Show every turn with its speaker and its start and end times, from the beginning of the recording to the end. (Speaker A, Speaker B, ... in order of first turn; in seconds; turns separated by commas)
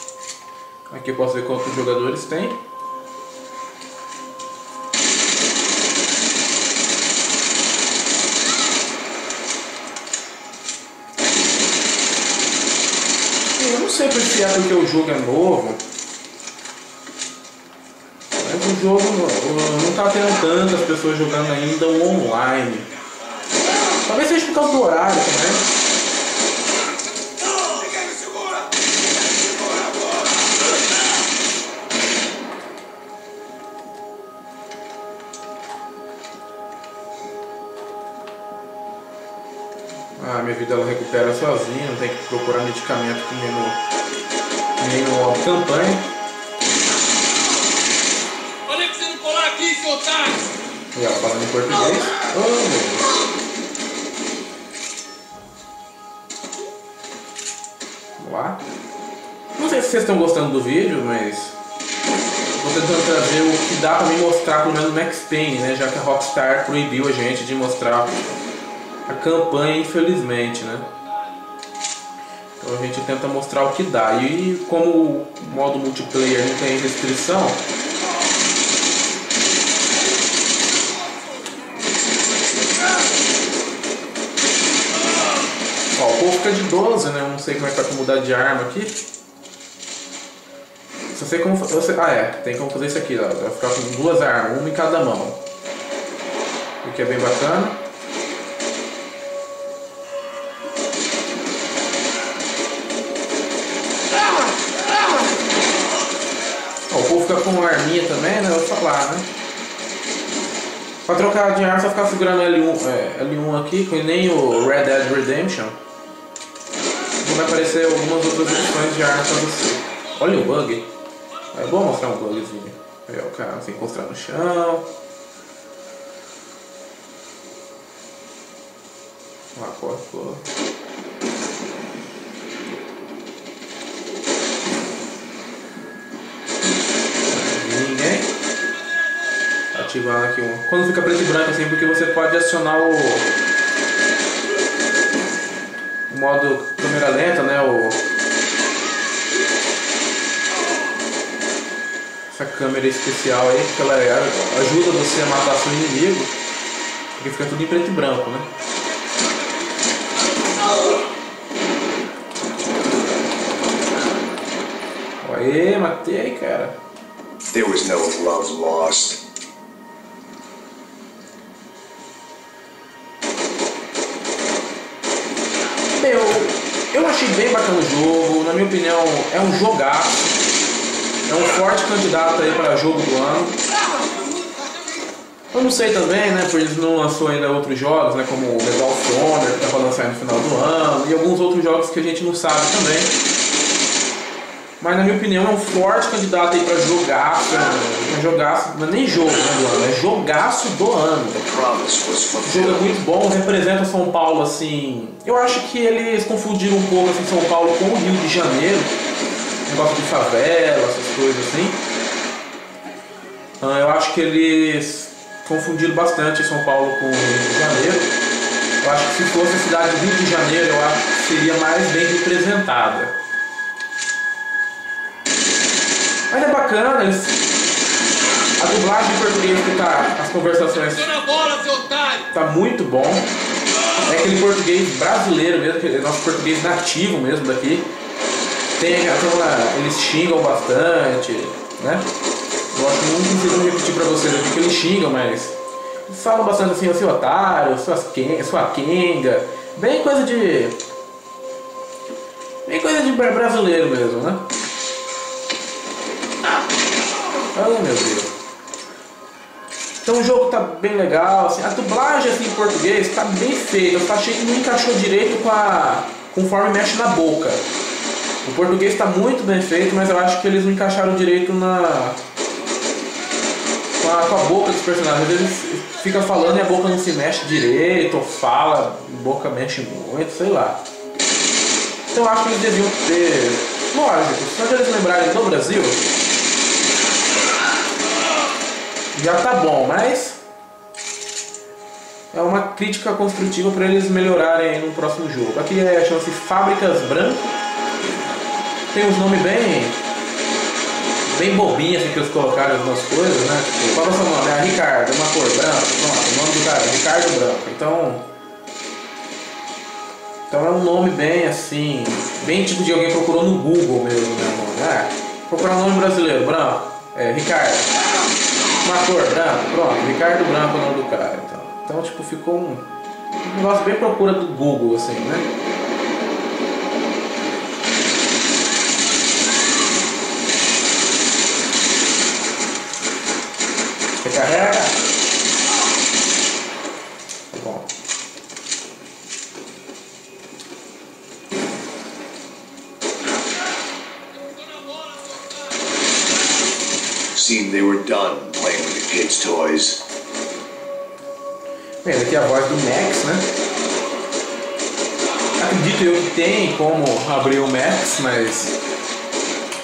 Speaker A: 0.9-2.6, Speaker A: 13.6-15.8, Speaker A: 18.3-22.9, Speaker A: 24.1-25.7, Speaker A: 40.1-43.8, Speaker A: 44.8-46.1, Speaker B: 48.7-50.4, Speaker A: 50.9-53.1, Speaker A: 58.2-58.6, Speaker A: 59.6-61.6, Speaker A: 62.5-68.2, Speaker A: 69.1-70.9, Speaker A: 72.6-77.6, Speaker A: 86.0-89.0, Speaker A: 91.1-95.4, Speaker A: 96.8-97.8, Speaker A: 106.9-109.3, Speaker A: 111.0-115.8, Speaker A: 117.2-120.9, Speaker A: 121.5-124.9, Speaker A: 129.5-130.4, Speaker A: 137.3-138.3, Speaker A: 139.7-143.3, Speaker A: 146.1-148.0, Speaker A: 152.3-156.3, Speaker A: 157.2-158.5, Speaker A: 165.2-166.8, Speaker C: 167.5-169.2, Speaker A: 176.0-180.3, Speaker A: 181.2-183.6, Speaker B: 184.2-185.0, Speaker A: 185.5-193.1, Speaker A: 194.8-201.4, Speaker C: 201.4-203.0, Speaker A: 202.4-208.9, Speaker A: 209.7-211.8, Speaker A: 213.6-218.1, Speaker A: 218.8-223.2, Speaker A: 226.3-227.4, Speaker A: 228.6-231.1, Speaker B: 230.8-232.3, Speaker A: 232.3-233.3, Speaker A: 234.0-237.9, Speaker A: 238.8-242.1, Speaker A: 242.7-250.8, Speaker A: 252.7-254.5, Speaker A: 257.5-258.3, Speaker A: 260.0-267.6, Speaker A: 268.4-272.2, Speaker A: 274.0-280.8, Speaker A: 282.1-286.1, Speaker A: 289.1-290.4, Speaker A: 292.3-297.5, Speaker A: 298.9-300.0, Speaker A: 301.2-308.3, Speaker A: 310.5-317.9, Speaker A: 318.8-322.9, Speaker A: 323.4-325.5, Speaker A: 334.2-335.0, Speaker A: 337.5-337.9, Speaker B: 344.3-345.8, Speaker C: 347.3-350.1, Speaker A: 352.0-353.5, Speaker A: 355.6-358.8